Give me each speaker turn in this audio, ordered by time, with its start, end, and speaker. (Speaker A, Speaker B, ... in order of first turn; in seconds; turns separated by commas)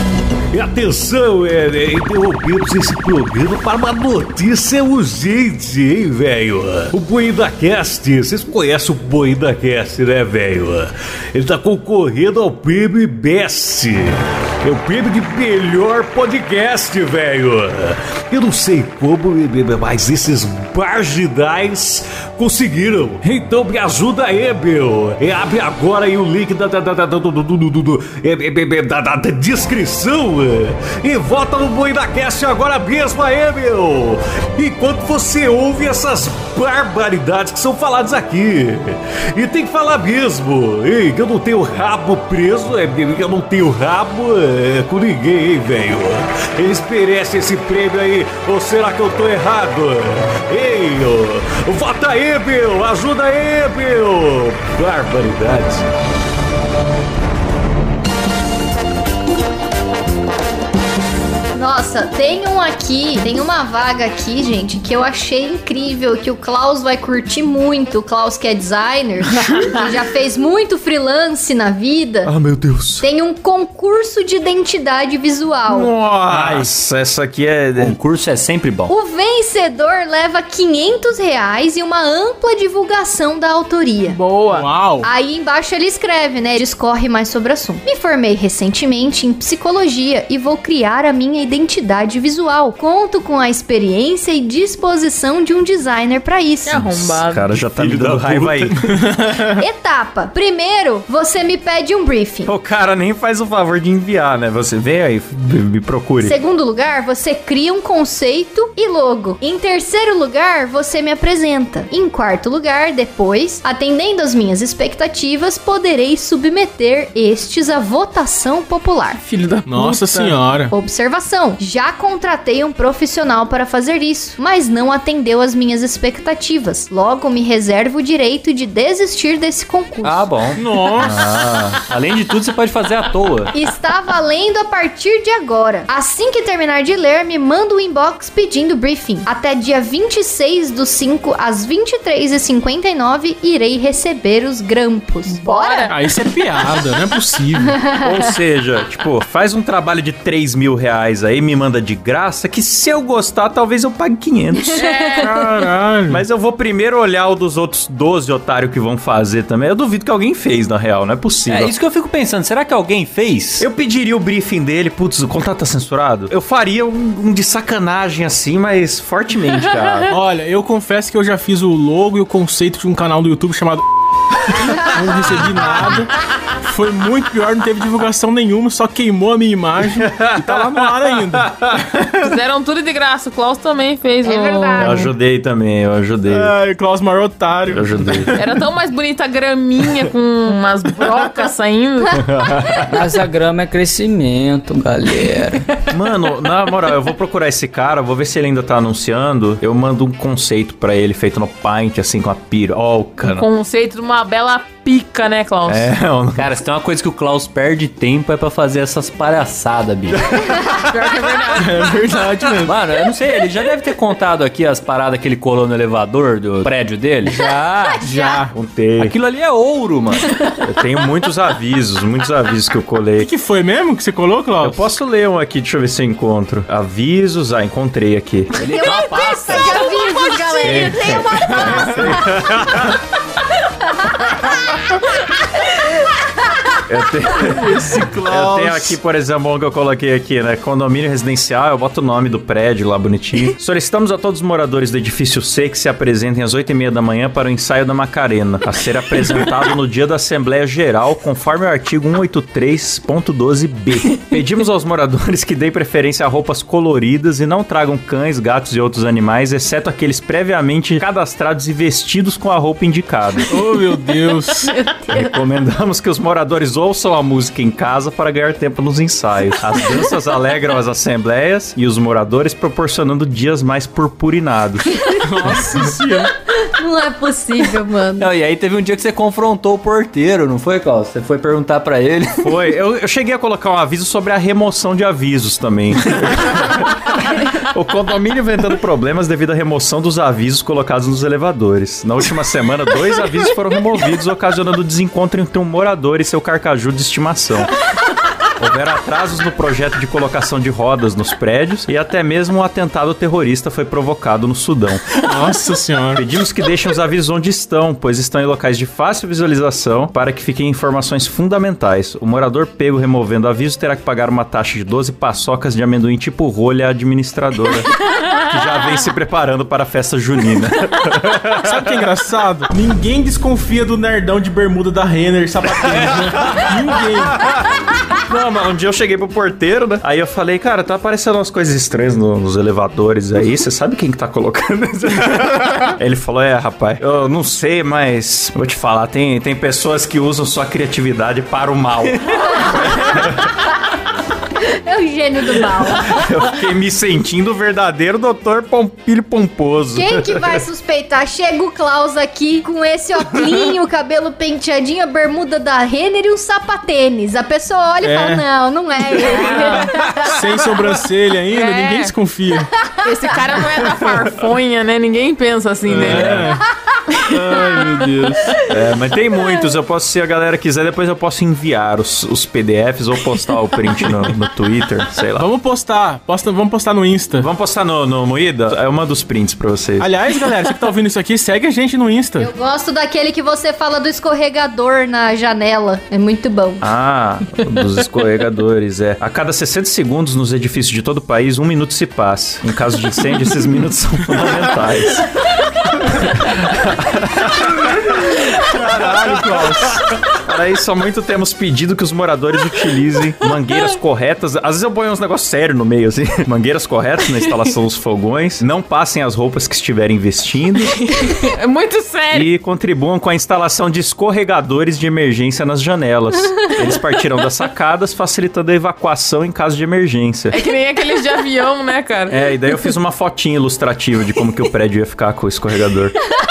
Speaker A: 0.5-55.8, Speaker B: 61.5-72.3, Speaker C: 72.2-73.0, Speaker B: 73.0-75.9, Speaker C: 75.7-78.0, Speaker D: 76.3-76.6, Speaker D: 77.8-78.9, Speaker B: 78.9-84.2, Speaker E: 84.0-84.7, Speaker F: 84.5-85.1, Speaker B: 85.0-96.9, Speaker E: 96.6-97.5, Speaker C: 96.8-98.9, Speaker A: 97.8-98.7, Speaker F: 98.9-99.5, Speaker B: 99.5-102.5, Speaker C: 102.5-106.3, Speaker B: 106.2-119.2, Speaker E: 119.1-120.3, Speaker F: 119.7-120.7, Speaker B: 120.7-130.3, Speaker D: 130.0-133.5, Speaker F: 130.6-131.2, Speaker C: 131.0-131.8, Speaker B: 133.5-145.9, Speaker E: 145.3-145.9, Speaker F: 145.9-147.9, Speaker C: 147.9-154.9, Speaker B: 154.7-155.3, Speaker E: 154.8-155.3, Speaker F: 155.2-156.2, Speaker C: 156.1-161.7, Speaker D: 161.5-163.6, Speaker C: 163.6-170.1, Speaker F: 170.1-173.8, Speaker F: 174.6-181.5, Speaker C: 180.0-182.0, Speaker E: 182.2-185.1, Speaker B: 184.2-185.0, Speaker C: 184.8-186.5, Speaker F: 186.3-188.5, Speaker C: 187.7-188.3, Speaker E: 188.3-192.3, Speaker C: 192.1-192.9, Speaker G: 192.9-195.7, Speaker C: 195.9-203.5, Speaker E: 203.2-205.9, Speaker C: 205.7-206.5, Speaker D: 206.3-210.3, Speaker E: 210.5-211.9, Speaker C: 210.6-210.8, Speaker F: 211.6-212.8, Speaker D: 212.6-218.1, Speaker F: 218.0-218.5, Speaker C: 218.5-219.1, Speaker D: 219.0-220.4, Speaker C: 220.6-223.3, Speaker F: 223.2-224.9, Speaker C: 224.6-228.6, Speaker D: 228.6-229.9, Speaker B: 228.6-232.4, Speaker E: 230.1-230.9, Speaker C: 230.6-233.0, Speaker B: 234.0-234.6, Speaker C: 236.9-263.6, Speaker F: 237.4-239.0, Speaker F: 263.5-264.7, Speaker C: 265.1-275.1, Speaker F: 275.2-276.3, Speaker B: 276.5-278.3, Speaker D: 278.2-282.6, Speaker C: 282.4-297.8, Speaker C: 298.6-305.2, Speaker F: 305.2-306.2, Speaker C: 306.1-322.0, Speaker F: 321.6-327.4, Speaker C: 325.8-327.6, Speaker C: 328.1-343.5, Speaker B: 342.6-343.3, Speaker B: 344.6-346.2, Speaker C: 345.8-350.6, Speaker B: 349.9-360.3, Speaker F: 358.0-358.4, Speaker E: 359.2-359.9, Speaker F: 359.4-362.7, Speaker E: 361.5-362.1, Speaker E: 363.0-366.5, Speaker F: 365.9-366.7, Speaker C: 365.9-366.5, Speaker F: 367.2-368.6, Speaker C: 368.6-375.5, Speaker F: 375.4-377.5, Speaker C: 377.4-380.1, Speaker F: 380.0-382.5, Speaker B: 382.4-386.9, Speaker C: 386.8-411.3, Speaker F: 398.9-400.0, Speaker E: 411.0-412.5, Speaker C: 412.3-420.6, Speaker E: 420.5-422.5, Speaker C: 422.3-426.2